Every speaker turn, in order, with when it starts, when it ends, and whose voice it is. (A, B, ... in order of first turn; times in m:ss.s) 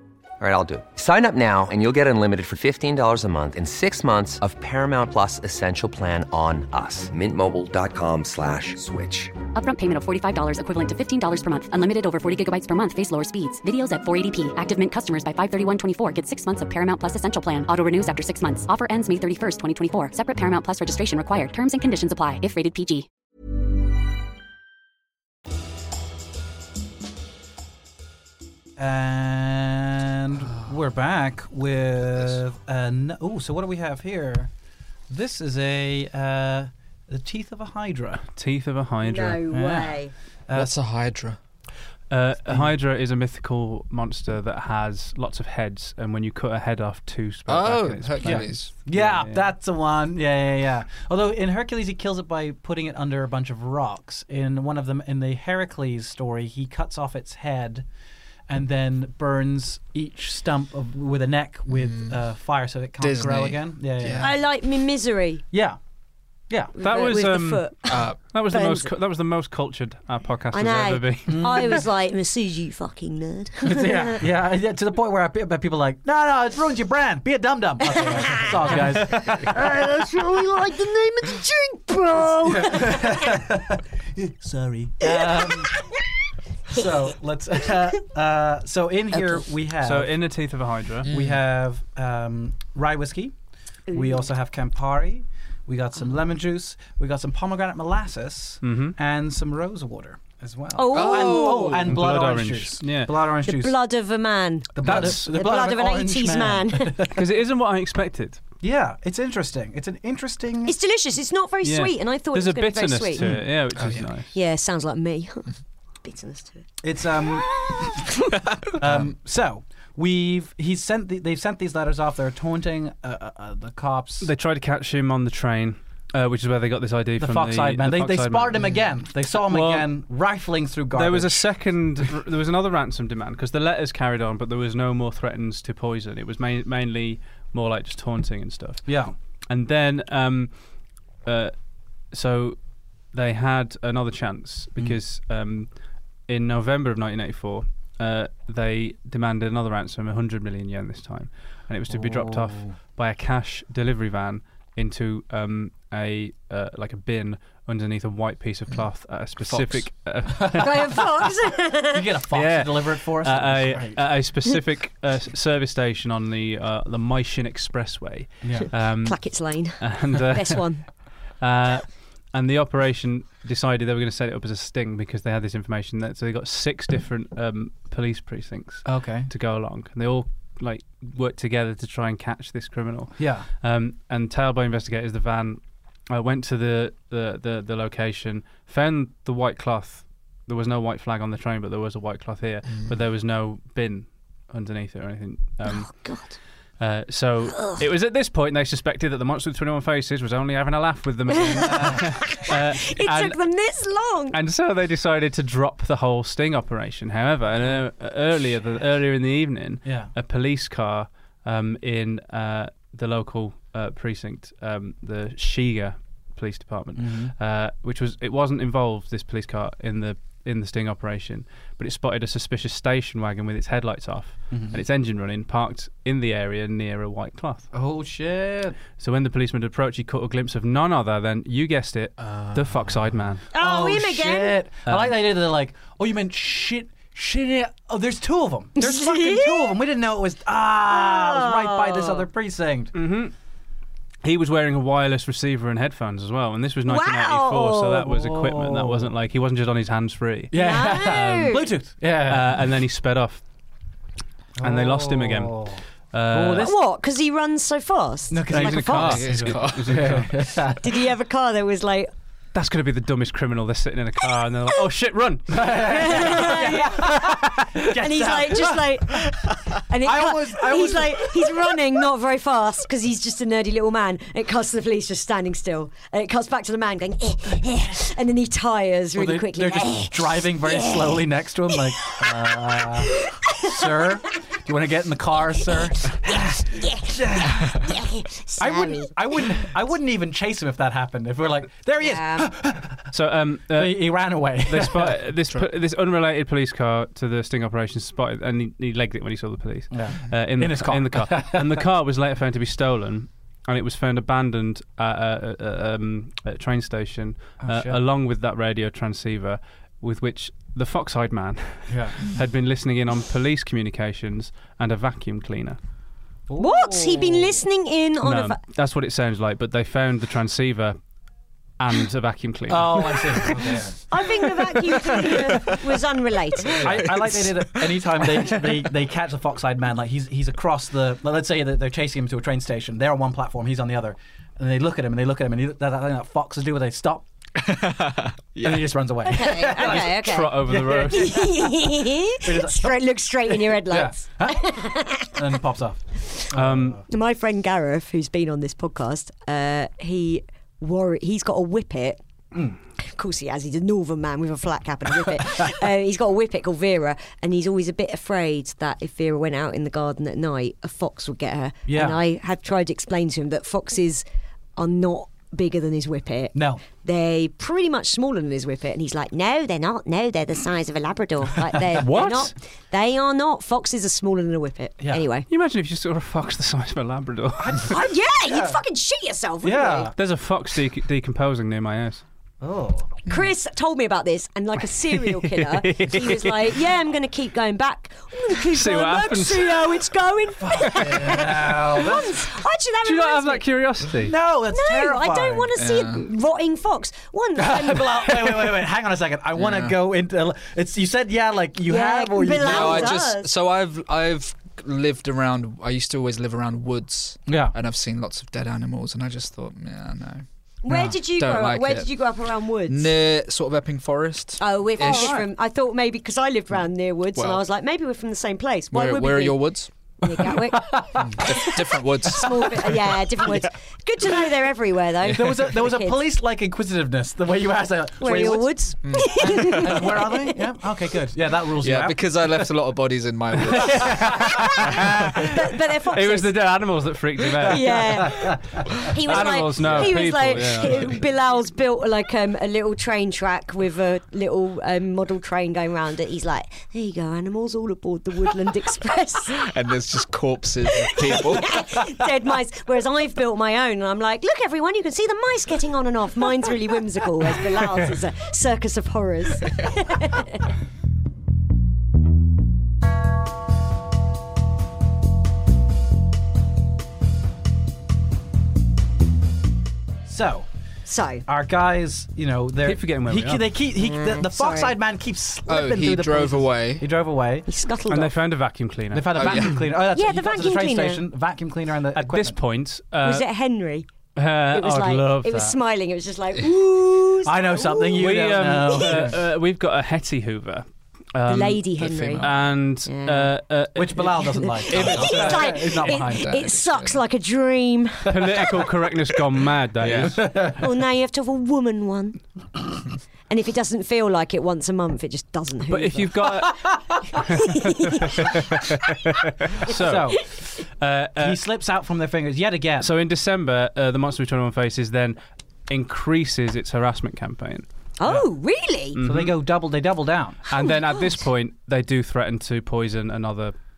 0:00.4-0:09.4 A
0:09.5-0:23.1 B
0:28.8-0:34.5 C
0:35.1-0:38.3 C
0:38.4-0:39.4 D
0:39.0-0:40.1 E
0:39.5-0:40.7 C
0:40.5-0:41.4 F
0:42.1-0:49.4 D
0:42.5-0:42.7 C
0:47.5-0:48.7 F
0:48.2-0:57.8 C
0:58.5-1:04.4 C
1:01.7-1:02.2 F
1:03.0-1:04.3 F
1:04.2-1:05.4 E
1:05.5-1:05.8 C
1:06.5-1:06.8 C
1:06.7-1:08.9 E
1:06.8-1:11.8 D
1:07.9-1:08.2 F
1:10.5-1:14.2 E
1:11.3-1:11.8 C
1:13.6-1:19.9 C
1:18.1-1:18.8 E
1:19.3-1:23.4 E
1:22.4-1:25.8 C
1:25.0-1:26.0 E
1:26.7-1:30.1 C
1:29.1-1:29.4 E
1:29.8-1:31.1 D
1:31.0-1:31.4 F
1:31.1-1:33.3 C
1:33.9-1:34.2 E
1:33.9-1:43.7 C
1:38.6-1:38.9 D
1:40.7-1:41.9 E
1:40.9-1:41.9 F
1:41.8-1:43.1 D
1:43.4-1:47.0 E
1:44.7-1:47.2 C
1:44.8-1:45.2 D
1:47.1-1:48.4 D
1:48.6-1:50.7 C
1:50.6-1:53.3 E
1:51.6-1:54.3 D
1:53.2-1:54.1 F
1:54.3-1:55.5 E
1:56.0-1:56.6 E
1:56.8-1:57.6 C
1:58.8-2:04.3 C
1:58.8-1:59.1 F
2:04.2-2:08.7 D
2:07.2-2:11.5 C
2:09.4-2:09.9 D
2:10.9-2:19.0 D
2:18.9-2:19.1 C
2:19.5-2:20.5 D
2:21.2-2:21.5 D
2:22.1-2:22.6 D
2:23.1-2:25.7 D
2:26.3-2:41.1 D
2:31.9-2:32.7 C
2:39.4-2:39.8 F
2:40.4-2:40.9 C
2:40.5-2:42.0 E
2:41.9-2:44.0 C
2:42.3-2:49.2 D
2:48.4-2:48.7 C
2:48.7-2:50.8 E
2:49.8-2:50.7 D
2:51.4-3:16.1 D
2:58.8-2:59.3 C
3:03.2-3:03.5 C
3:15.6-3:16.4 E
3:16.8-3:23.4 D
3:17.5-3:17.8 E
3:21.5-3:24.4 E
3:21.7-3:22.0 C
3:24.3-3:47.7 D
3:29.8-3:30.1 C
3:37.0-3:37.3 C
3:44.5-3:44.8 C
3:47.7-3:48.8 C
3:49.0-3:53.4 D
3:52.2-3:53.3 F
3:53.5-3:54.6 E
3:53.5-4:02.9 C
3:54.9-3:55.2 D
3:58.8-3:59.7 E
4:00.9-4:02.2 E
4:02.9-4:03.3 D
4:04.2-4:13.4 D
4:06.8-4:08.1 E
4:08.1-4:09.1 C
4:10.5-4:12.5 C
4:10.5-4:11.6 E
4:14.6-4:15.8 C
4:14.6-4:16.7 D
4:16.3-4:16.8 C
4:16.6-4:19.2 E
4:18.3-4:20.9 C
4:18.5-4:20.3 D
4:18.9-4:20.5 F
4:20.7-4:22.1 E
4:22.5-4:27.6 D
4:25.5-4:31.8 C
4:25.8-4:27.1 E
4:28.0-4:41.2 E
4:39.1-4:47.9 C
4:42.4-4:43.8 E
4:46.1-4:49.4 E
4:48.6-4:53.1 C
4:52.0-4:52.5 E
4:53.1-5:15.8 D
4:53.7-4:55.2 C
4:59.9-5:01.8 C
5:07.6-5:08.0 C
5:11.9-5:12.3 C
5:16.5-5:17.6 C
5:16.6-5:18.6 E
5:18.2-5:21.0 D
5:21.8-5:23.7 D
5:22.7-5:24.0 C
5:24.1-5:26.9 E
5:26.8-5:28.9 F
5:26.8-5:37.3 C
5:37.6-5:38.9 F
5:38.6-5:41.8 C
5:39.2-5:45.4 E
5:39.8-5:41.5 D
5:42.4-5:47.0 C
5:46.5-5:47.0 D
5:47.1-5:52.2 E
5:53.0-6:04.2 E
6:01.9-6:02.2 C
6:04.8-6:15.5 E
6:06.5-6:06.8 C
6:12.0-6:12.5 D
6:15.5-6:17.9 D
6:17.6-6:18.8 C
6:17.8-6:20.1 E
6:19.6-6:20.1 C
6:20.1-6:22.2 D
6:22.6-6:23.1 C
6:23.3-6:33.6 E
6:25.1-6:26.7 D
6:28.7-6:30.0 D
6:30.6-6:32.4 C
6:30.9-6:31.7 D
6:33.0-6:34.3 D
6:34.2-6:35.7 C
6:34.7-6:38.5 E
6:35.8-6:36.3 F
6:37.6-6:43.2 C
6:39.6-6:40.0 F
6:41.8-6:43.5 E
6:42.4-6:52.1 F
6:47.5-6:47.7 C
6:50.8-6:53.1 E
6:52.8-6:55.4 F
6:54.6-7:06.2 E
6:55.0-6:55.5 C
6:57.3-6:57.6 F
6:58.9-6:59.9 F
7:00.3-7:02.9 C
7:01.2-7:03.6 F
7:05.2-7:05.6 F
7:05.3-7:12.7 C
7:08.2-7:10.6 E
7:09.0-7:10.0 F
7:11.8-7:15.5 F
7:13.6-7:15.5 C
7:15.5-7:16.6 E
7:16.1-7:18.4 D
7:17.6-7:19.4 C
7:17.7-7:29.7 E
7:19.2-7:21.2 D
7:19.8-7:21.1 F
7:29.5-7:32.0 F
7:31.0-7:40.7 E
7:50.2-7:50.7 C
7:51.0-7:51.4 E
7:51.5-7:57.7 C
7:52.8-7:53.7 D
7:54.0-7:55.0 E
7:55.7-7:57.0 F
7:57.7-7:58.3 E
7:58.1-7:59.8 D
7:59.1-8:02.6 C
7:59.3-7:59.8 F
8:00.1-8:01.2 E
8:02.1-8:03.4 D
8:03.2-8:04.1 E
8:04.4-8:05.8 D
8:04.7-8:08.2 E
8:07.4-8:09.4 C
8:08.2-8:15.2 D
8:08.9-8:09.2 E
8:11.4-8:12.5 E
8:12.0-8:12.8 F
8:13.0-8:13.5 E
8:14.0-8:16.5 C
8:14.6-8:18.7 E
8:14.9-8:17.2 F
8:18.3-8:20.7 D
8:20.0-8:20.4 F
8:20.1-8:20.8 C
8:20.7-8:22.4 E
8:23.5-8:26.3 E
8:25.9-8:31.6 D
8:26.7-8:27.3 C
8:27.5-8:28.4 E
8:29.8-8:30.5 C
8:31.4-8:33.1 C
8:33.0-8:37.8 D
8:38.2-8:39.2 E
8:39.1-8:39.6 D
8:39.2-8:40.6 C
8:40.7-8:43.7 D
8:40.8-8:41.4 E